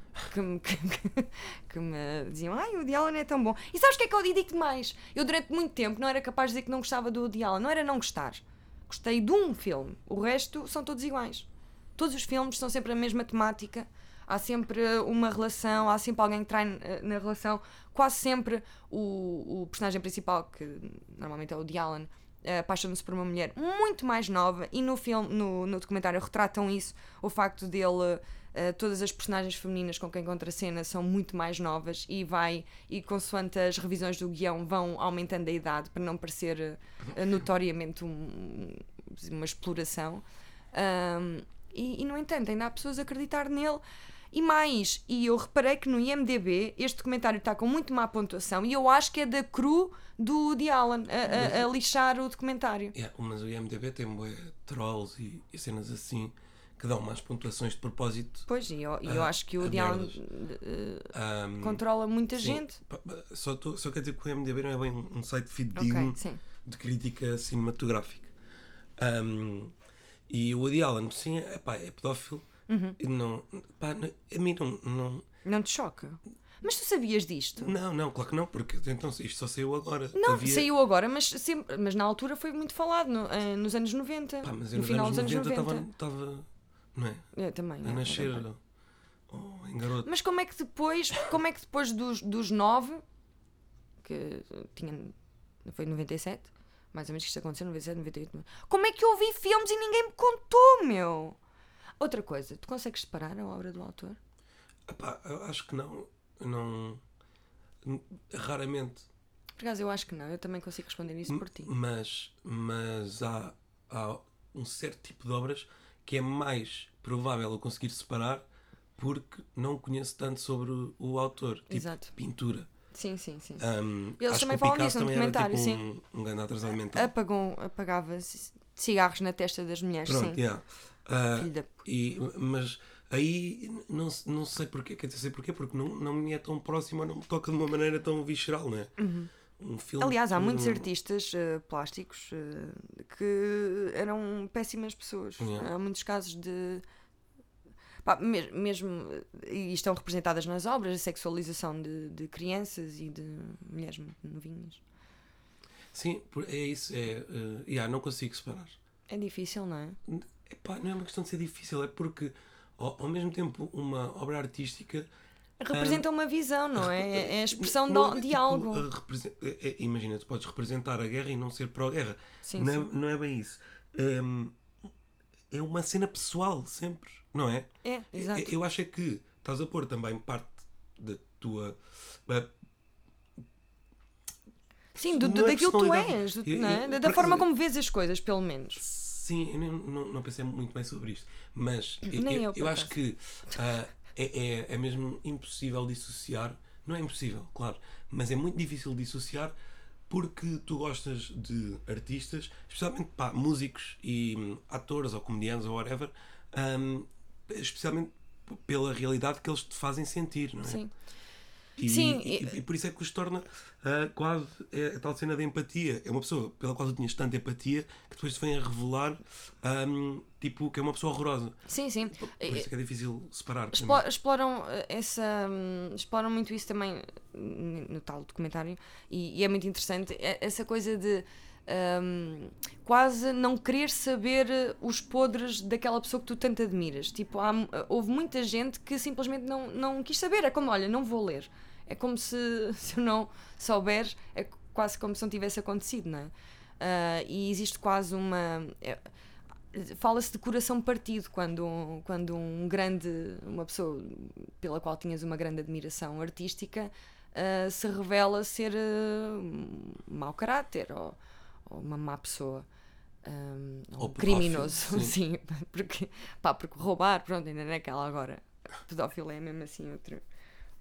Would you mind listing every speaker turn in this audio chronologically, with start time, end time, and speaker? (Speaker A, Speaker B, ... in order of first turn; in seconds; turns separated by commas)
Speaker A: 0.2-53.0, Speaker B: 51.3-51.7, Speaker B: 52.9-58.5, Speaker A: 58.5-62.8, Speaker B: 59.0-60.2, Speaker B: 61.1-61.8, Speaker B: 62.3-68.3, Speaker A: 65.8-66.4, Speaker B: 69.0-69.7, Speaker B: 70.3-72.5, Speaker A: 72.7-73.0, Speaker B: 73.0-75.3, Speaker A: 75.5-77.7, Speaker B: 77.6-80.7, Speaker A: 80.1-85.9, Speaker B: 84.4-87.3, Speaker A: 87.3-88.5, Speaker B: 87.8-88.6, Speaker B: 89.3-90.1, Speaker A: 90.0-93.0, Speaker A: 94.0-95.1, Speaker A: 95.7-101.4, Speaker A: 102.0-104.2, Speaker B: 104.9-107.0, Speaker B: 107.8-109.1, Speaker A: 109.6-111.7, Speaker B: 111.3-118.5, Speaker B: 119.0-122.7, Speaker A: 121.7-122.1, Speaker A: 122.9-123.7, Speaker B: 123.6-127.1, Speaker A: 124.2-125.8, Speaker A: 126.9-130.4, Speaker B: 130.1-138.9, Speaker A: 131.4-131.9, Speaker A: 139.0-139.3, Speaker B: 139.6-140.9, Speaker A: 140.0-146.8, Speaker B: 145.4-145.7, Speaker A: 148.0-154.8, Speaker B: 155.9-158.8, Speaker A: 159.1-160.0, Speaker B: 160.1-165.1, Speaker A: 165.6-168.9, Speaker B: 165.7-166.1, Speaker B: 166.8-174.6, Speaker A: 172.4-172.9, Speaker B: 175.5-182.5, Speaker A: 177.8-178.5, Speaker A: 184.9-188.8, Speaker B: 185.0-187.5, Speaker B: 188.8-199.5, Speaker A: 192.1-193.0, Speaker B: 200.1-210.8, Speaker A: 210.6-210.9, Speaker B: 211.8-221.6, Speaker A: 211.8-212.6, Speaker A: 221.7-222.7, Speaker B: 222.2-224.1, Speaker A: 223.7-249.0, Speaker A: 249.7-262.7, Speaker A: 263.2-270.2, Speaker B: 264.0-265.2